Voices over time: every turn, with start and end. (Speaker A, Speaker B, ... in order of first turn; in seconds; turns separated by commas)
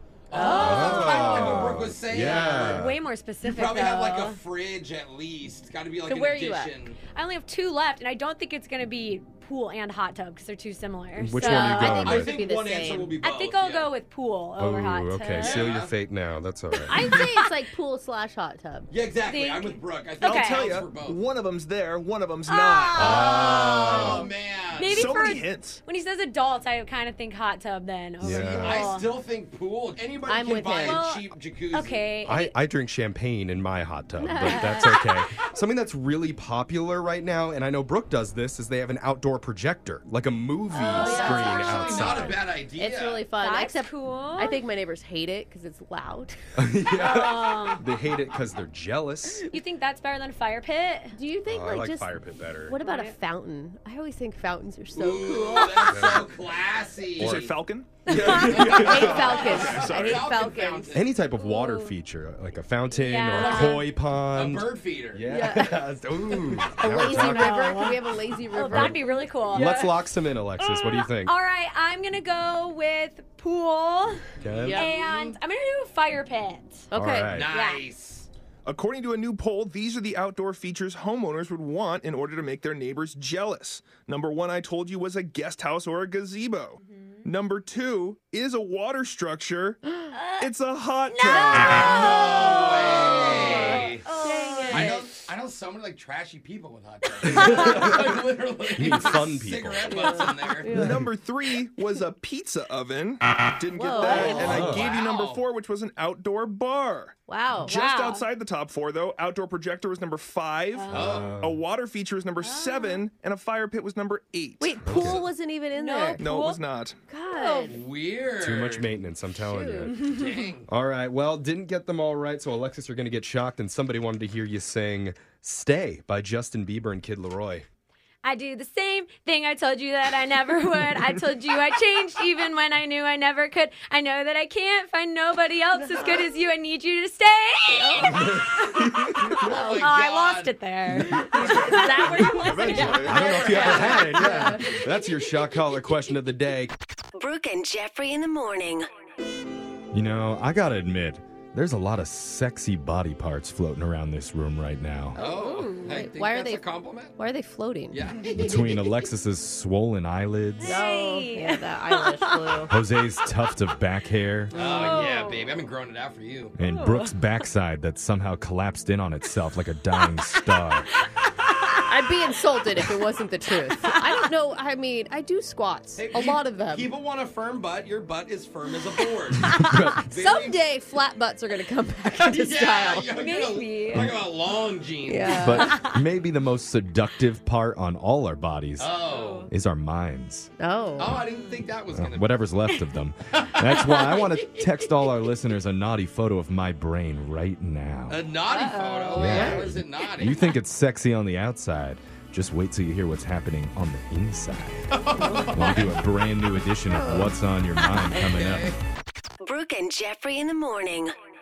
Speaker A: 0.3-2.9, Speaker B: 0.3-1.4, Speaker C: 0.3-1.6, Speaker D: 0.5-3.0, Speaker C: 2.2-2.6, Speaker B: 2.4-4.4, Speaker A: 3.4-7.0, Speaker C: 6.1-6.7, Speaker B: 7.2-12.2, Speaker D: 11.2-12.3, Speaker C: 11.4-13.2, Speaker A: 11.7-13.9, Speaker B: 13.2-15.7, Speaker D: 14.6-17.1, Speaker A: 15.4-15.9, Speaker B: 16.7-17.4, Speaker C: 16.9-18.9, Speaker A: 18.9-21.2, Speaker B: 19.3-20.7, Speaker E: 20.2-23.3, Speaker B: 22.5-29.1, Speaker D: 23.0-24.2, Speaker A: 23.1-25.1, Speaker C: 23.6-24.2, Speaker E: 24.8-25.8, Speaker D: 28.2-28.9, Speaker A: 28.2-32.1, Speaker C: 30.3-31.0, Speaker B: 30.9-32.5, Speaker D: 32.2-42.4, Speaker C: 34.2-34.9, Speaker B: 34.5-35.1, Speaker A: 40.7-43.2, Speaker C: 40.8-46.4, Speaker B: 40.9-42.3, Speaker B: 43.4-44.5, Speaker D: 46.6-49.4, Speaker B: 46.9-47.8, Speaker B: 49.5-51.1, Speaker C: 51.1-56.2, Speaker D: 51.4-52.8, Speaker B: 52.8-53.2, Speaker A: 54.9-57.5, Speaker D: 55.9-56.3, Speaker E: 57.2-60.3, Speaker D: 57.2-57.5, Speaker D: 58.1-59.5, Speaker A: 58.2-61.1, Speaker C: 58.3-61.0, Speaker D: 60.9-67.9, Speaker B: 61.4-61.9, Speaker B: 62.9-63.9, Speaker A: 63.3-65.2, Speaker C: 65.3-69.9, Speaker B: 67.0-70.0, Speaker D: 68.7-69.0, Speaker D: 69.5-71.3, Speaker B: 70.6-74.2, Speaker A: 74.4-75.0, Speaker D: 74.4-74.8, Speaker C: 74.6-75.0, Speaker B: 74.8-76.9, Speaker C: 76.9-77.4, Speaker D: 76.9-77.5, Speaker A: 77.3-78.3, Speaker B: 77.5-77.8, Speaker E: 78.7-89.8, Speaker B: 86.8-87.3, Speaker B: 90.1-90.5, Speaker E: 90.3-92.2, Speaker B: 91.1-95.0, Speaker A: 91.6-94.1, Speaker C: 92.0-95.1, Speaker A: 94.7-100.7, Speaker B: 97.2-97.7, Speaker D: 97.2-98.2, Speaker D: 98.7-100.1, Speaker C: 99.9-101.0, Speaker E: 100.7-115.0, Speaker D: 100.8-101.0, Speaker C: 103.8-104.7, Speaker A: 104.0-105.4, Speaker B: 104.1-104.4, Speaker D: 104.4-104.9, Speaker C: 107.3-107.7, Speaker B: 107.7-108.3, Speaker B: 110.8-111.2, Speaker A: 110.9-111.4, Speaker D: 110.9-111.6, Speaker B: 112.4-113.0, Speaker C: 114.6-116.2, Speaker D: 114.8-115.2, Speaker A: 114.9-115.2, Speaker B: 115.7-116.6, Speaker E: 116.2-117.0, Speaker C: 117.1-117.8, Speaker B: 117.3-117.8, Speaker A: 117.7-118.9, Speaker D: 118.4-120.0, Speaker C: 119.5-119.9, Speaker B: 119.9-120.3, Speaker A: 120.0-120.7, Speaker D: 120.7-127.7, Speaker B: 128.2-138.4, Speaker C: 135.9-136.2, Speaker C: 137.8-138.2, Speaker D: 138.0-139.5, Speaker B: 139.2-144.7, Speaker A: 139.4-140.6, Speaker E: 141.2-143.8, Speaker D: 142.5-146.7, Speaker A: 143.1-144.2, Speaker C: 143.5-144.7, Speaker F: 147.2-148.9, Speaker D: 149.9-155.2, Speaker C: 155.2-156.6, Speaker A: 155.2-157.1, Speaker C: 157.2-158.0, Speaker A: 157.9-159.0, Speaker D: 158.3-160.8, Speaker B: 160.6-162.7, Speaker C: 160.6-162.7, Speaker D: 162.7-164.5, Speaker C: 164.5-165.2, Speaker A: 164.5-166.6, Speaker B: 164.6-165.4, Speaker D: 166.6-170.9, Speaker B: 166.7-167.2, Speaker B: 171.6-171.8, Speaker C: 171.9-176.9, Speaker B: 173.8-174.3, Speaker A: 175.9-180.6, Speaker D: 179.5-180.1, Speaker C: 180.1-183.2, Speaker A: 182.2-185.7, Speaker B: 183.2-184.1, Speaker D: 183.9-184.2, Speaker C: 185.1-185.9, Speaker D: 185.4-188.9, Speaker A: 188.8-189.5, Speaker B: 189.1-189.5, Speaker D: 189.5-190.5, Speaker C: 190.6-191.2, Speaker A: 191.0-192.3, Speaker B: 191.3-191.6, Speaker D: 191.9-198.2, Speaker A: 193.4-195.1, Speaker A: 198.1-200.5, Speaker B: 198.5-199.4, Speaker D: 199.2-208.8, Speaker C: 199.2-199.7, Speaker A: 204.9-205.9, Speaker A: 208.1-208.8, Speaker F: 209.4-211.2